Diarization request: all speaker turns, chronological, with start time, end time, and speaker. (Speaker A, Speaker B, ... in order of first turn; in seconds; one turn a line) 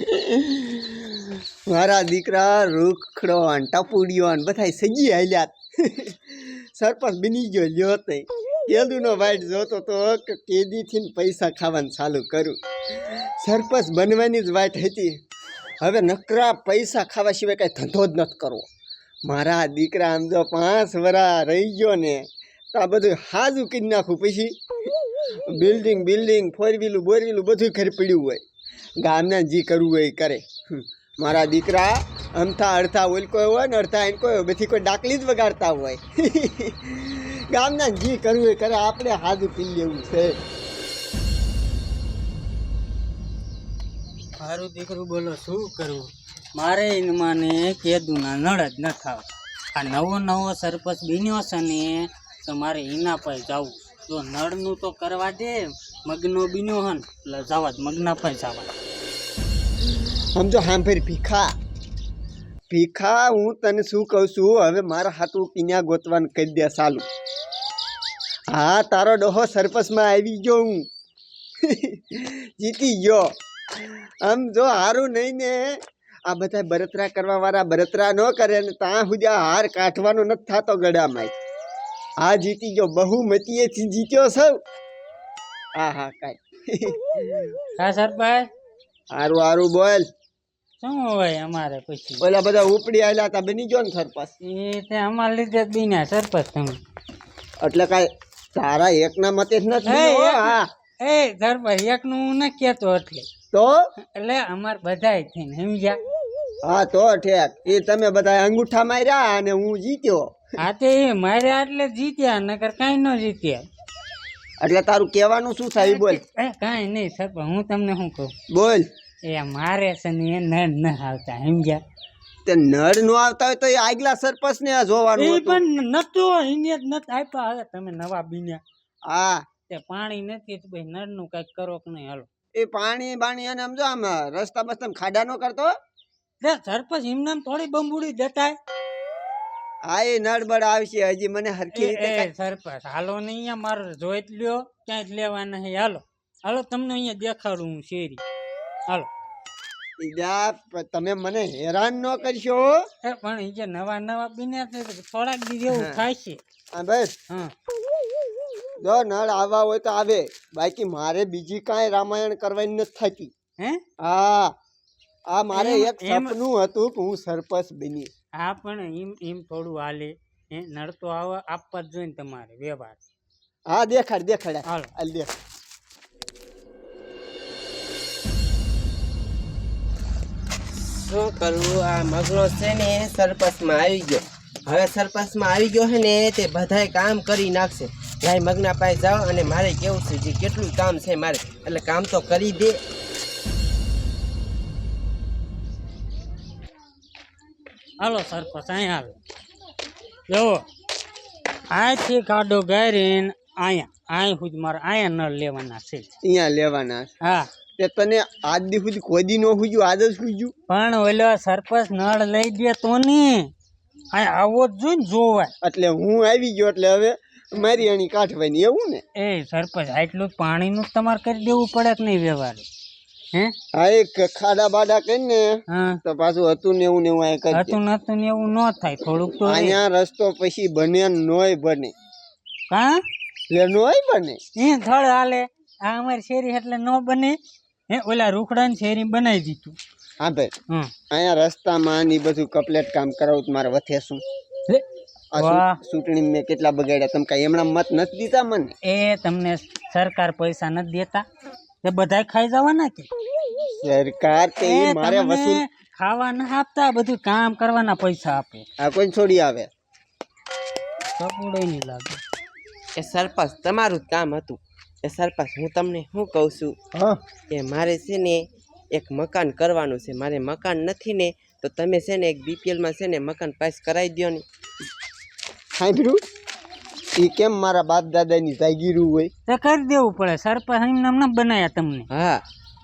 Speaker A: 0.3-0.9
Speaker A: 1.7-12.6
Speaker A: 13.4-15.2
Speaker A: 15.8-18.6
Speaker A: 19.3-24.6
Speaker A: 25.5-28.4
Speaker A: 29.0-40.4
Speaker B: 44.4-58.7
Speaker A: 60.3-61.5
Speaker A: 62.7-67.1
Speaker A: 68.5-70.9
Speaker A: 71.6-81.3
Speaker A: 82.2-84.6
Speaker A: 85.8-87.5
Speaker B: 87.8-88.5
Speaker A: 89.1-90.0
Speaker B: 90.8-92.2
Speaker A: 92.2-94.3
Speaker B: 94.4-96.8
Speaker A: 97.6-100.7
Speaker B: 99.9-103.3
Speaker B: 104.1-106.0
Speaker A: 106.6-110.3
Speaker B: 110.6-113.7
Speaker A: 114.6-116.2
Speaker B: 115.8-118.3
Speaker A: 118.5-118.9
Speaker B: 119.2-121.8
Speaker A: 122.5-125.6
Speaker B: 125.2-128.6
Speaker A: 129.1-129.4
Speaker B: 129.7-132.3
Speaker A: 132.6-135.7
Speaker B: 136.4-138.6
Speaker A: 139.9-142.3
Speaker B: 141.8-148.2
Speaker A: 150.0-152.8
Speaker B: 153.0-156.4
Speaker A: 155.7-156.0
Speaker A: 156.7-157.1
Speaker A: 158.8-163.3
Speaker A: 164.0-164.6
Speaker A: 165.3-168.1
Speaker B: 165.5-166.3
Speaker B: 168.3-173.0
Speaker A: 173.7-175.3
Speaker C: 180.9-192.8
Speaker B: 198.0-199.2
Speaker B: 200.3-200.6
Speaker B: 201.7-206.1
Speaker A: 206.2-207.1
Speaker A: 207.8-210.5
Speaker B: 210.7-213.5
Speaker B: 214.1-215.5
Speaker A: 215.6-219.0
Speaker B: 219.2-222.7
Speaker A: 223.8-227.8
Speaker B: 225.7-226.0
Speaker B: 227.5-229.8
Speaker A: 229.4-231.9
Speaker B: 232.7-233.0
Speaker A: 233.5-234.4
Speaker B: 234.5-237.4
Speaker B: 237.9-239.8
Speaker A: 240.2-240.5
Speaker A: 241.1-244.2
Speaker A: 245.3-248.7
Speaker B: 245.4-245.8
Speaker B: 248.8-251.2
Speaker B: 251.8-253.1
Speaker A: 253.7-255.6
Speaker B: 254.6-258.6
Speaker A: 258.8-259.7
Speaker B: 261.2-262.2
Speaker C: 263.0-266.8
Speaker A: 266.9-267.2
Speaker C: 267.5-274.4
Speaker A: 275.8-276.2
Speaker A: 277.1-279.3
Speaker B: 279.5-282.1
Speaker C: 282.1-282.4